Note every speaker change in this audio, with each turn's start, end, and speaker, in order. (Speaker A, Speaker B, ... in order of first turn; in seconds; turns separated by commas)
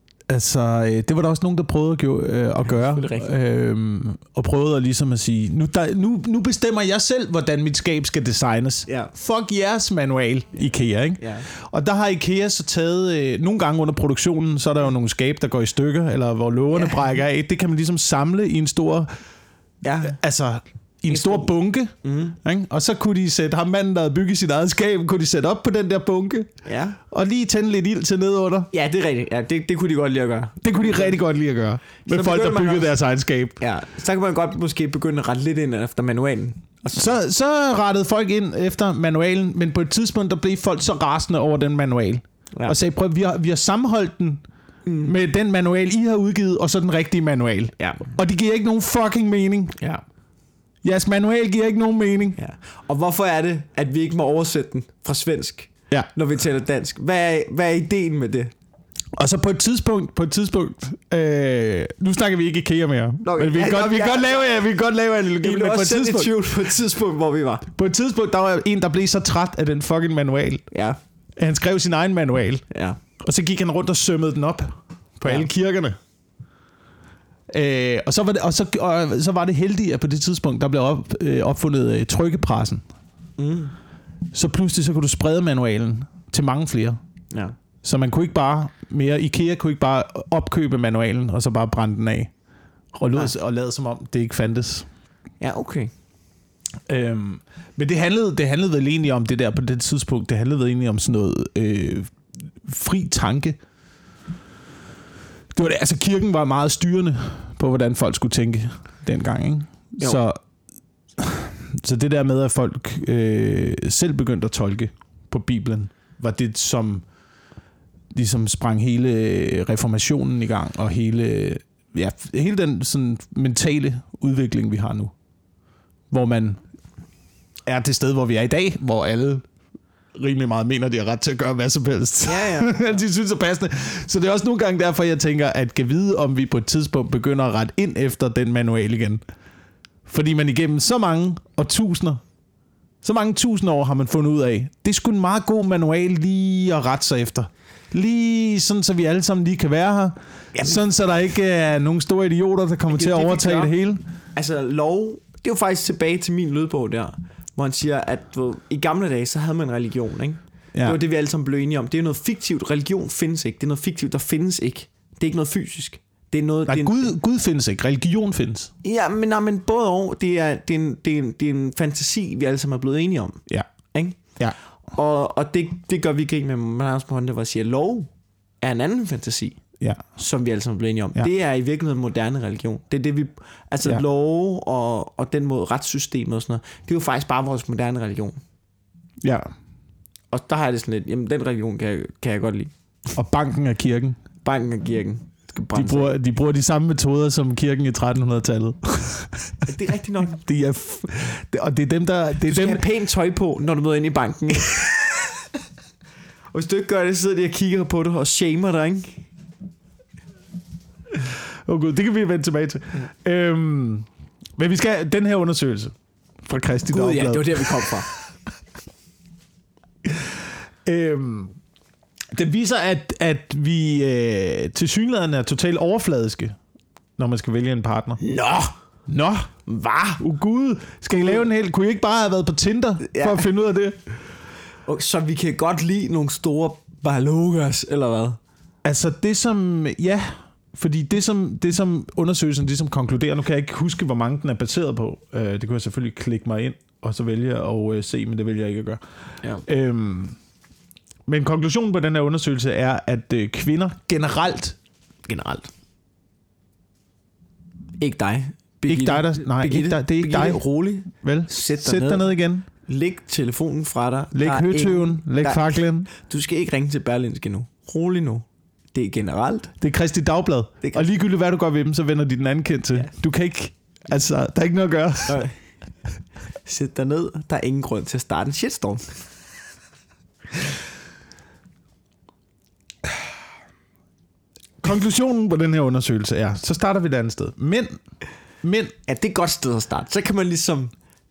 Speaker A: 0.3-19.1, Speaker B: 2.6-3.3, Speaker B: 11.2-11.5, Speaker B: 19.8-20.2, Speaker A: 20.1-26.5, Speaker B: 21.1-21.5, Speaker B: 22.0-22.4, Speaker B: 26.7-27.0, Speaker A: 27.1-28.7, Speaker B: 28.7-31.2, Speaker A: 30.6-33.6, Speaker B: 32.0-32.9, Speaker B: 33.6-37.2, Speaker A: 36.9-44.4, Speaker B: 44.9-45.1, Speaker A: 45.0-49.8, Speaker B: 47.8-48.1, Speaker B: 49.8-50.0, Speaker A: 50.8-52.4, Speaker B: 52.4-58.5, Speaker A: 59.2-66.4, Speaker B: 63.2-64.6, Speaker B: 65.4-67.7, Speaker A: 67.7-70.6, Speaker B: 70.7-71.0, Speaker A: 71.4-72.6, Speaker B: 72.7-73.0, Speaker A: 73.2-76.0, Speaker A: 77.5-82.8, Speaker B: 83.4-83.7, Speaker A: 84.3-87.0, Speaker A: 87.8-92.3, Speaker A: 93.0-94.9, Speaker B: 95.4-95.9, Speaker A: 96.9-103.6, Speaker A: 105.5-110.4, Speaker A: 111.2-117.0, Speaker A: 118.1-125.1, Speaker A: 126.1-126.6, Speaker A: 127.7-129.4, Speaker A: 130.2-139.2, Speaker B: 132.2-133.0, Speaker A: 140.1-142.2, Speaker A: 143.0-154.0, Speaker B: 152.9-153.7, Speaker B: 154.4-167.1, Speaker A: 166.7-168.7, Speaker B: 168.8-174.2, Speaker B: 174.9-178.1, Speaker B: 178.6-179.6, Speaker B: 180.2-188.4, Speaker A: 189.2-189.5, Speaker B: 190.3-192.7, Speaker A: 193.1-194.2, Speaker B: 194.4-196.2, Speaker A: 195.7-199.6, Speaker B: 199.7-200.4, Speaker A: 200.2-202.9, Speaker B: 202.5-205.3, Speaker B: 206.5-209.2, Speaker A: 211.1-215.9, Speaker A: 216.4-218.2, Speaker B: 216.9-218.1, Speaker A: 220.1-221.6, Speaker A: 222.3-226.6, Speaker A: 227.2-228.2, Speaker B: 228.2-228.7, Speaker A: 229.1-229.5, Speaker B: 229.7-230.2, Speaker A: 230.2-234.0, Speaker B: 233.0-233.4, Speaker B: 234.9-238.4, Speaker A: 238.8-249.0, Speaker A: 249.6-250.4, Speaker A: 251.3-254.8, Speaker B: 255.3-255.7, Speaker B: 258.0-262.3, Speaker A: 258.9-262.6, Speaker B: 262.9-269.7, Speaker A: 264.3-266.1, Speaker A: 269.8-275.4, Speaker B: 275.3-275.6, Speaker B: 276.6-279.1, Speaker A: 284.8-288.0, Speaker A: 288.6-288.9, Speaker B: 289.1-290.9